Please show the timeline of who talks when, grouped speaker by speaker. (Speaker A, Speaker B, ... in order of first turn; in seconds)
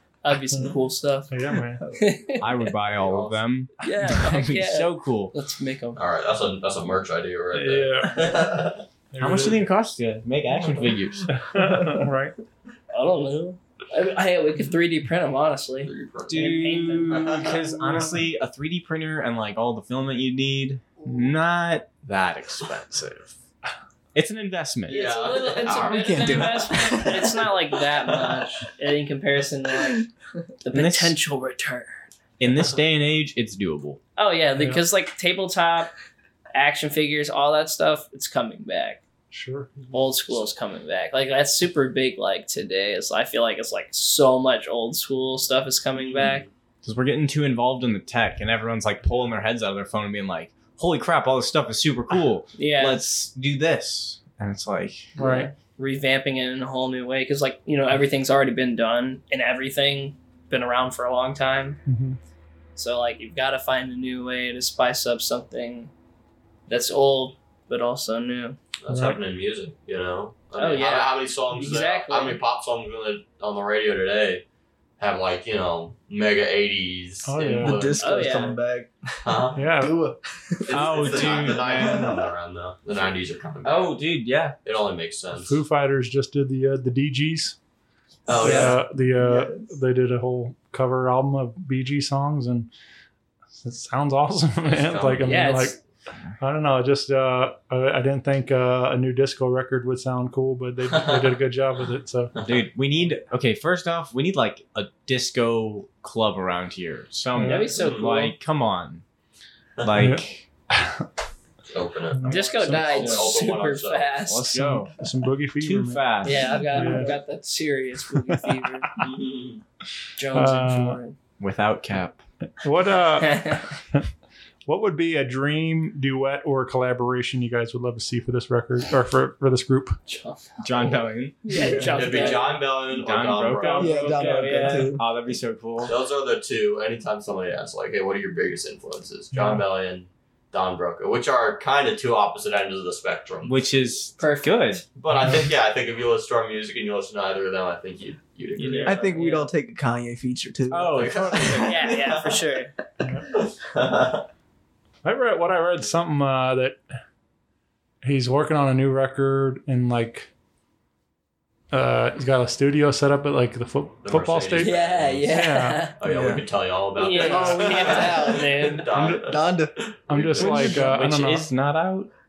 Speaker A: 0.2-1.3, 1.9-2.5, 3.8-6.0, 12.9-17.5, 24.9-30.1, 30.6-32.1, 34.1-35.9, 36.5-39.0, 39.9-46.5, 52.5-53.0, 55.2-61.8, 62.8-65.9, 66.7-68.6, 70.5-72.4, 78.0-78.6, 95.2-95.8, 107.4-108.3, 112.2-114.5, 116.2-119.0, 120.2-121.2, 123.2-123.8, 130.1-132.7, 133.6-134.9, 144.2-144.8, 151.6-152.7, 164.6-166.0, 166.9-168.9
Speaker B: 1.3-1.8, 7.5-8.4, 9.1-9.6, 11.3-12.3, 34.5-34.8, 39.3-39.7, 55.2-55.5, 61.9-62.2, 68.9-69.2, 77.2-77.9, 79.5-80.0, 85.3-87.6, 88.4-92.7, 93.6-95.8, 96.4-102.3, 107.3-107.7, 110.0-111.1, 112.1-113.0, 114.5-117.1, 120.3-121.0, 122.6-124.0, 124.7-130.0, 139.3-139.6, 145.1-145.4, 153.0-153.3, 155.0-156.8, 158.0-160.3, 161.7-165.8, 168.9-169.2, 170.1-171.5
Speaker C: 2.4-5.3, 9.2-11.3, 16.3-23.3, 24.1-25.0, 30.7-31.1, 32.4-34.0, 46.8-55.1, 80.7-82.2, 83.6-84.5, 102.4-109.0, 109.8-110.5, 112.9-113.5, 114.3-115.0, 115.6-116.9, 121.4-122.2, 130.6-131.7, 132.3-135.9, 143.4-144.8, 148.6-149.4, 150.7-151.9, 170.4-172.1
Speaker D: 3.0-3.4, 6.0-8.8, 10.6-10.9, 15.8-16.6, 17.1-17.5, 24.9-27.3, 28.1-28.5, 46.0-46.4, 68.8-74.4, 75.0-78.6, 79.2-79.7, 80.7-84.0, 84.6-85.6, 88.2-88.8, 94.6-95.2, 100.9-101.2, 102.3-102.6, 107.8-108.1, 111.7-114.1, 119.0-119.6, 131.8-134.0, 135.8-143.6, 144.9-149.0, 150.9-152.4, 153.3-154.2, 164.0-165.3, 166.0-170.8
Speaker E: 25.8-27.4, 77.6-82.3, 88.4-89.5, 131.5-132.1, 133.8-135.0, 148.8-151.7, 166.0-166.4, 167.2-168.4, 169.0-169.7